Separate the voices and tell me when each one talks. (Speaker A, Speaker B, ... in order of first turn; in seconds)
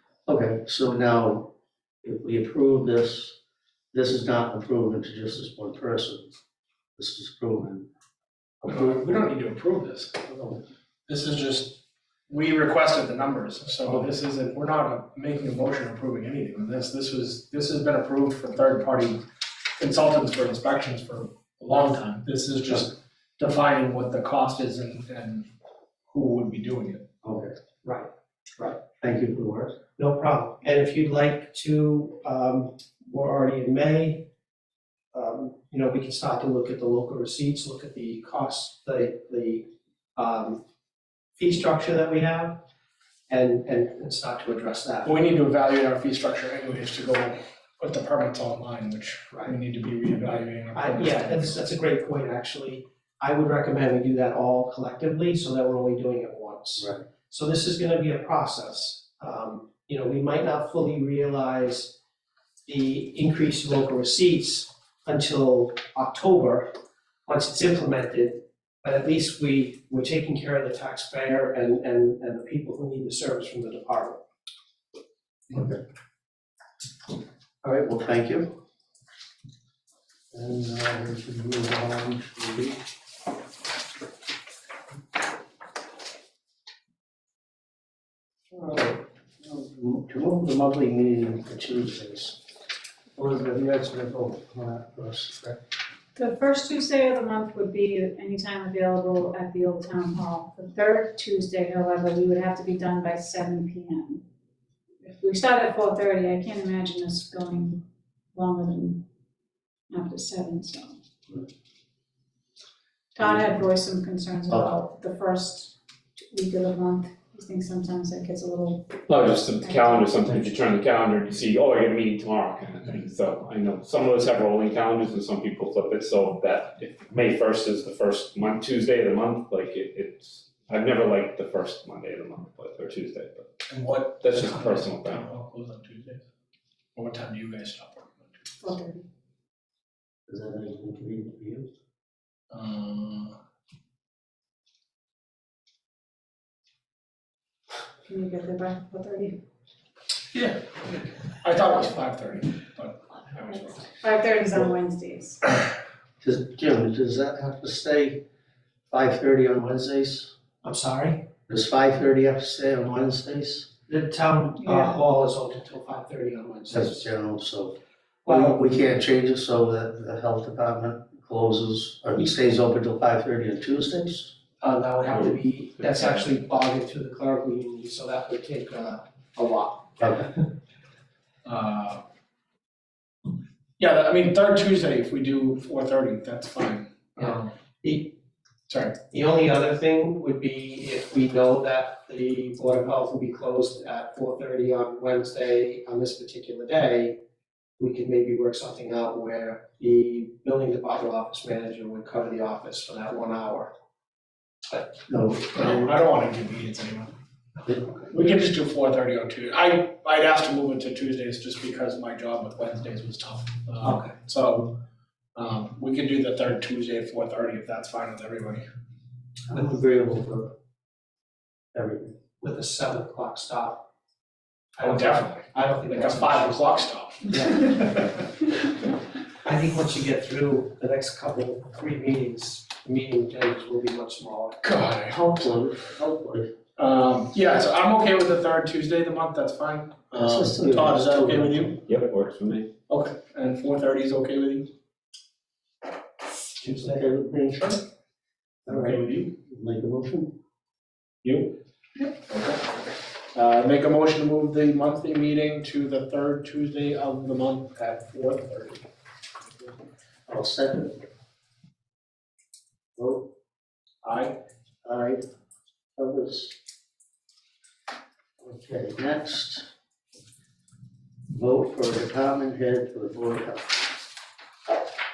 Speaker A: 0.3-1.5, 2.0-3.4, 3.9-6.3, 7.0-7.8, 27.2-27.5, 28.9-29.7, 75.5-75.8, 77.6-78.5, 80.3-82.8, 88.5-92.4, 93.2-95.6, 113.2-113.5, 140.3-141.7, 156.2-158.2, 158.9-160.3, 161.5-163.7, 166.7-167.8, 168.3-174.3, 205.1-205.8, 219.5-220.5, 221.7-222.1, 235.1-236.5, 240.1-241.7, 246.6-247.8, 248.7-250.3, 260.3-261.0, 262.9-263.3, 264.8-265.2, 265.9-266.6, 268.4-269.6, 271.3-274.0
Speaker B: 8.6-10.4, 11.1-19.2, 19.8-25.5, 26.1-27.0, 45.0-51.6, 133.7-136.2, 136.9-138.4, 142.5-143.3, 150.3-153.9, 181.4-182.0, 183.8-187.5, 188.7-189.0, 205.5-207.1, 208.1-214.8, 215.3-218.7, 224.8-228.2, 234.6-235.6, 236.8-241.8, 242.9-244.7, 248.7-249.3, 251.2-252.7, 253.3-258.9, 264.0-264.4
Speaker C: 27.8-28.8, 30.0-34.2, 35.1-40.6, 41.4-42.6, 43.3-45.1, 50.7-61.9, 62.6-66.7, 67.2-74.2, 160.6-161.3, 163.9-167.1, 168.2-168.6, 174.6-180.3, 187.2-188.1, 189.1-197.2, 197.8-203.7, 213.8-214.1, 222.4-223.9, 224.8-226.7, 227.3-227.8, 229.4-234.6
Speaker D: 96.1-104.2, 105.0-107.8, 108.3-109.0, 109.9-110.9, 113.1-120.3, 138.6-139.0, 148.1-149.4, 154.0-155.4, 164.6-164.9
Speaker E: 119.1-133.5, 134.2-135.2, 241.9-242.7